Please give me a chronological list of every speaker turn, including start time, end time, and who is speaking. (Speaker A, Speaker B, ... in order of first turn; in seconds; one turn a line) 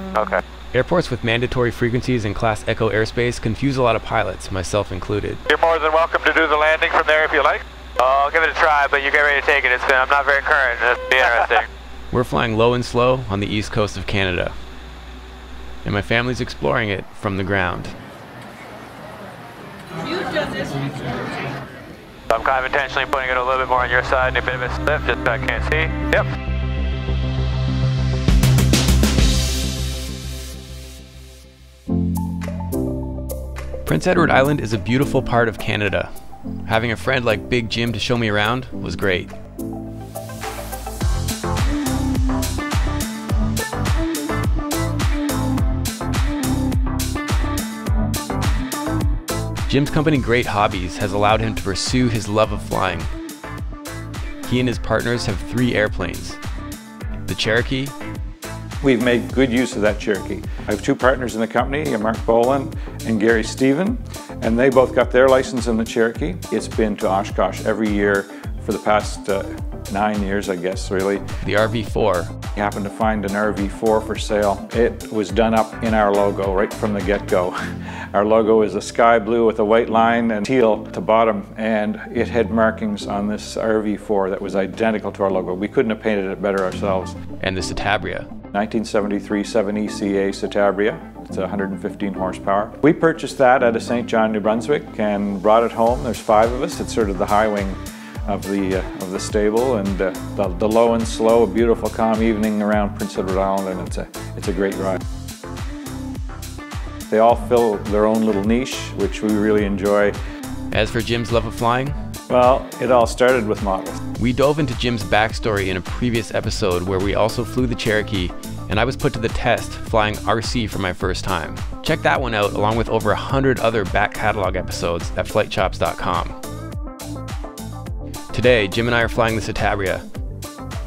Speaker A: 0.1-0.4
Speaker B: 0.7-5.4
Speaker C: 5.5-7.6
Speaker A: 8.0-11.7
Speaker B: 12.1-14.6
Speaker B: 15.8-17.9
Speaker A: 22.3-25.9
Speaker B: 33.9-36.1
Speaker B: 36.7-39.3
Speaker B: 49.7-53.1
Speaker B: 54.5-56.4
Speaker B: 57.3-57.9
Speaker D: 58.8-71.3
Speaker B: 71.4-72.3
Speaker D: 72.5-77.6
Speaker D: 78.1-87.2
Speaker B: 87.4-88.3
Speaker D: 88.5-105.0
Speaker D: 107.1-110.2
Speaker B: 110.7-112.0
Speaker D: 112.3-114.0
Speaker B: 114.2-126.4
Speaker B: 128.3-130.1